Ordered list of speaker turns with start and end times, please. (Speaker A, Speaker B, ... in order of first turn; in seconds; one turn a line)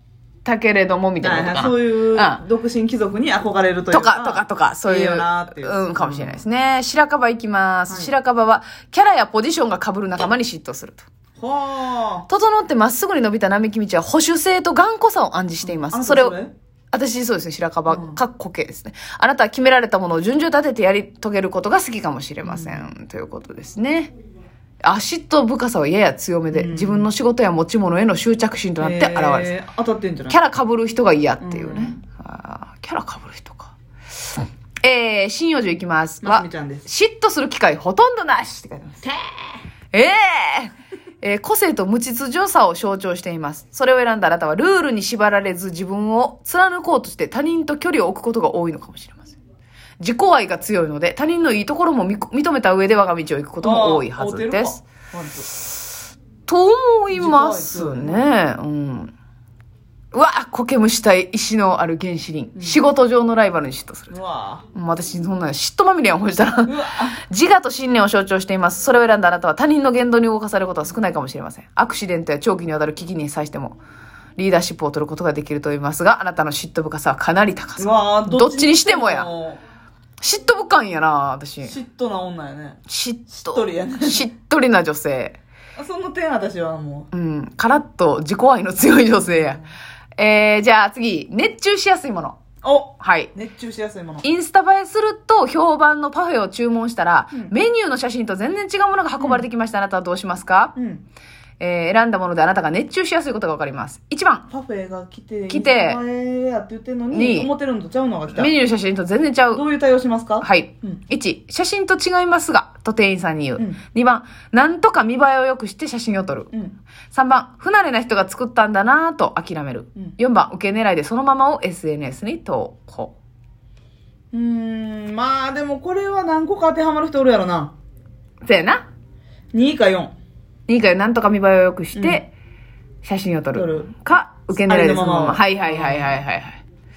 Speaker A: 0.4-2.4
Speaker B: 1.2-6.4
Speaker A: 3.9-11.1
Speaker B: 11.4-12.3
Speaker A: 12.3-16.4
Speaker B: 15.6-16.5
Speaker A: 16.9-24.1
Speaker B: 17.9-18.2
Speaker B: 22.4-22.8
Speaker A: 24.8-29.5
Speaker B: 26.5-27.1
Speaker B: 28.8-30.4
Speaker A: 30.3-33.7
Speaker B: 31.4-32.0
Speaker A: 34.8-39.1
Speaker B: 36.2-36.9
Speaker A: 39.9-49.4
Speaker A: 50.0-54.8
Speaker B: 53.6-55.5
Speaker A: 56.5-59.1
Speaker B: 57.1-58.2
Speaker A: 60.1-64.2
Speaker B: 64.1-64.6
Speaker A: 64.7-73.8
Speaker B: 66.6-67.2
Speaker A: 74.4-79.3
Speaker B: 77.8-79.6
Speaker A: 80.2-81.7
Speaker B: 81.6-84.3
Speaker A: 82.9-85.4
Speaker B: 85.8-87.1
Speaker A: 87.1-89.6
Speaker A: 90.2-92.4
Speaker B: 92.6-94.3
Speaker A: 93.0-93.3
Speaker A: 94.2-100.7
Speaker B: 99.2-99.4
Speaker B: 100.8-101.0
Speaker A: 101.6-104.5
Speaker B: 104.5-108.5
Speaker A: 105.5-106.0
Speaker A: 107.1-107.5
Speaker A: 108.3-109.6
Speaker B: 109.5-111.0
Speaker A: 110.4-116.5
Speaker B: 116.5-116.8
Speaker A: 117.1-123.1
Speaker B: 124.3-127.7
Speaker A: 128.4-128.8
Speaker B: 129.5-130.1
Speaker A: 130.7-132.3
Speaker B: 131.9-132.2
Speaker A: 133.0-136.6
Speaker B: 133.5-133.9
Speaker B: 134.6-136.2